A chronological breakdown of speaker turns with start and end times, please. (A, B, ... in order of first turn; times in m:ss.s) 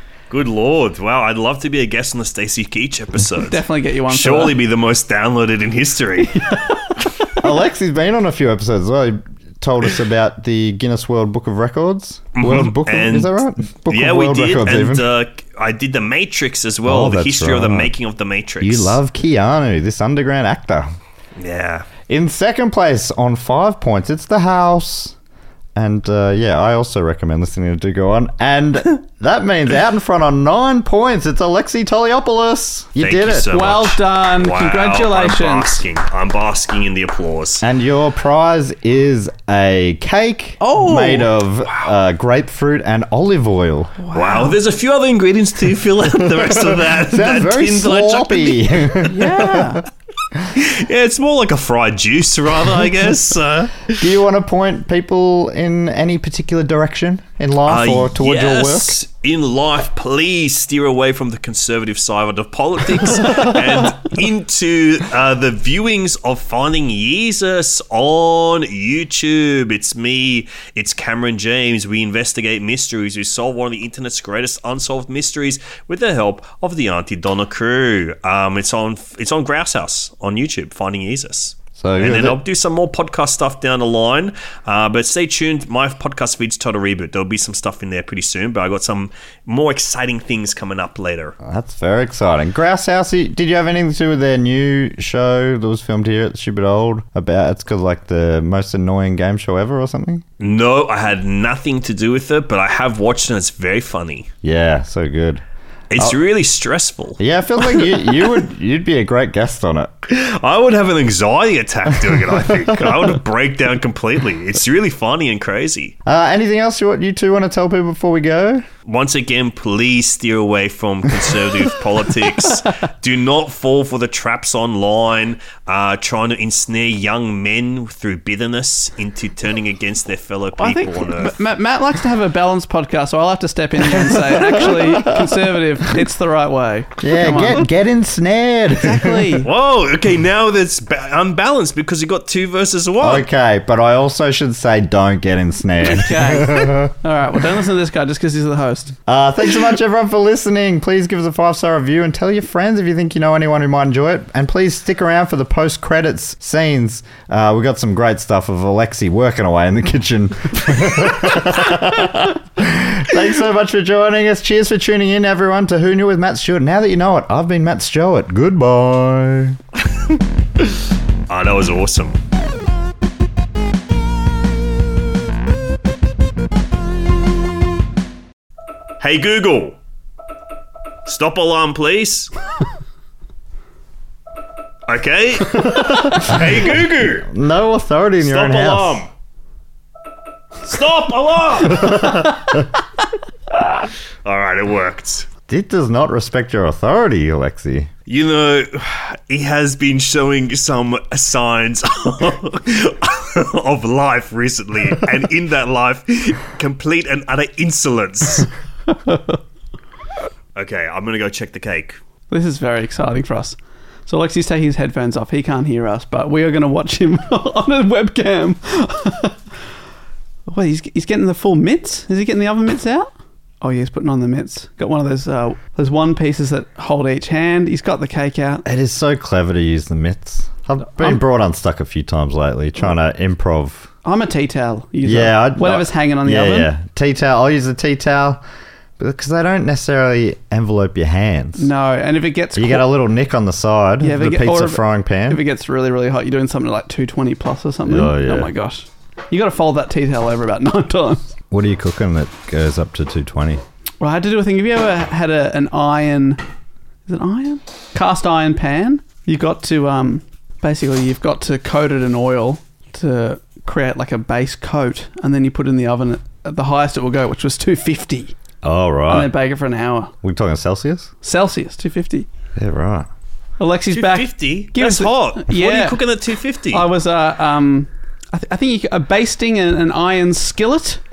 0:00.3-0:06.4 A
0:03.4-0:04.5 B
0:06.3-0:06.9 B
0:07.4-0:15.1 C
0:12.3-0:19.0 A
0:16.8-0:17.9 C
0:18.6-0:20.9 C
0:21.4-0:21.9 A
0:22.1-0:25.1 C
0:25.7-0:33.5 C
0:33.0-0:37.6 A
0:33.5-0:35.8 B
0:37.6-0:43.9 C
0:40.6-0:41.3 B
0:44.0-0:44.6 B
0:44.1-0:48.9 A
0:46.2-0:49.8 C
0:49.0-0:49.8 B
0:50.5-0:54.0 A
0:53.9-0:59.0 C
0:57.7-1:31.3 A
1:21.7-1:22.4 C
1:31.4-1:40.2 C
1:40.4-1:44.3 A
1:44.4-1:45.4 C
1:45.9-1:47.2 A
1:47.2-1:49.9 C
1:50.1-1:55.9 A
1:56.0-1:58.7 C
1:58.8-2:11.4 A
2:10.6-2:17.7 B
2:14.0-2:15.6 C
2:17.0-2:19.4 C
2:18.7-2:19.5 B
2:19.4-2:23.2 A
2:23.0-2:26.9 C
2:25.8-2:28.9 B
2:29.1-2:49.6 C
2:51.3-2:52.2 A
2:59.0-2:59.8 A
3:01.0-3:02.3 A
3:04.9-3:07.3 A
3:05.7-3:09.0 C
3:08.2-3:09.1 A
3:10.6-3:12.4 A
3:11.7-3:12.2 C
3:13.5-3:15.3 A
3:15.5-3:17.9 C
3:18.1-3:28.5 A
3:30.6-3:32.0 A
3:32.3-3:39.4 B
3:40.5-3:48.6 B
3:48.6-3:53.9 C
3:51.0-3:51.2 B
3:54.0-3:56.7 B
3:55.0-3:58.4 C
3:59.0-4:01.7 C
4:01.6-4:02.9 B
4:02.6-4:05.4 C
4:04.0-4:11.3 B
4:07.8-4:08.5 C
4:11.5-4:13.6 C
4:14.0-4:16.4 B
4:17.0-4:28.3 B
4:28.6-4:29.3 C
4:29.1-4:30.1 B
4:30.2-4:31.1 C
4:31.2-4:32.2 B
4:32.6-4:33.1 C
4:33.6-4:36.0 B
4:33.9-4:36.8 A
4:36.7-4:41.0 B